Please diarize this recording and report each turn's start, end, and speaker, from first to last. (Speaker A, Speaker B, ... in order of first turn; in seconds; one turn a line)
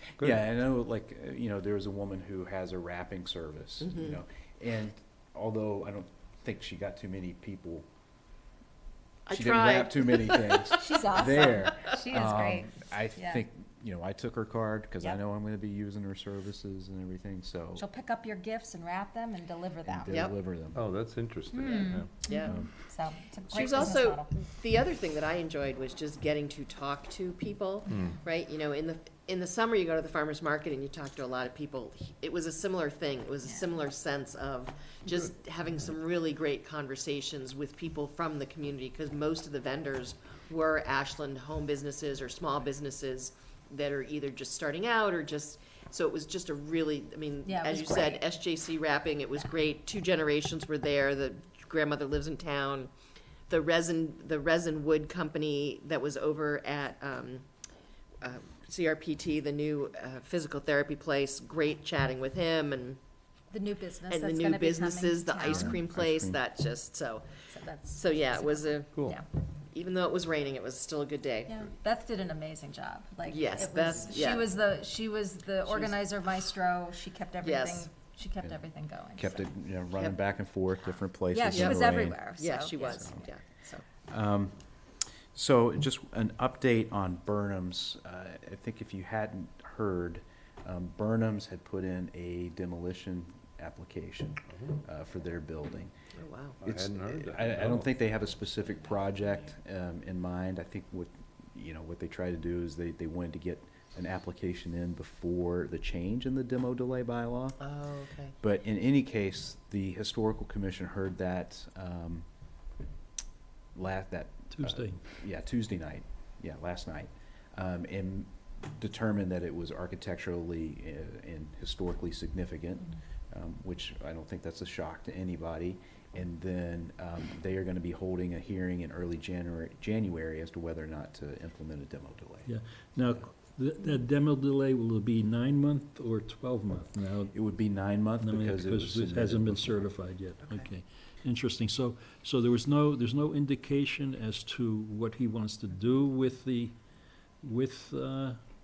Speaker A: 0.2-0.5
Speaker B: 0.2-7.8
Speaker C: 3.8-4.2
Speaker C: 9.2-11.1
Speaker B: 9.3-17.9
Speaker D: 10.8-13.4
Speaker D: 17.8-20.2
Speaker B: 19.8-20.8
Speaker C: 20.1-20.3
Speaker A: 20.7-22.1
Speaker D: 21.5-24.4
Speaker C: 22.3-22.6
Speaker B: 22.3-22.7
Speaker C: 23.5-52.9
Speaker A: 27.9-28.2
Speaker D: 47.4-48.2
Speaker C: 53.5-57.4
Speaker C: 58.2-63.0
Speaker D: 63.5-65.8
Speaker C: 64.1-67.3
Speaker B: 65.7-66.4
Speaker D: 67.5-69.2
Speaker C: 67.9-69.1
Speaker A: 68.9-69.2
Speaker C: 69.7-71.6
Speaker D: 71.5-79.5
Speaker C: 73.3-74.5
Speaker C: 75.7-76.0
Speaker C: 77.4-77.9
Speaker B: 78.4-82.2
Speaker C: 79.9-80.2
Speaker D: 81.3-83.3
Speaker C: 81.5-83.8
Speaker B: 82.8-83.2
Speaker B: 84.1-84.5
Speaker B: 85.3-95.9
Speaker A: 94.5-94.8
Speaker C: 96.1-96.6
Speaker A: 96.5-98.0
Speaker B: 96.6-107.6
Speaker C: 107.6-108.3
Speaker B: 108.4-112.2
Speaker B: 113.7-132.5
Speaker E: 114.5-115.0
Speaker E: 132.4-137.5
Speaker B: 137.3-140.7
Speaker E: 138.2-146.8
Speaker E: 147.4-148.4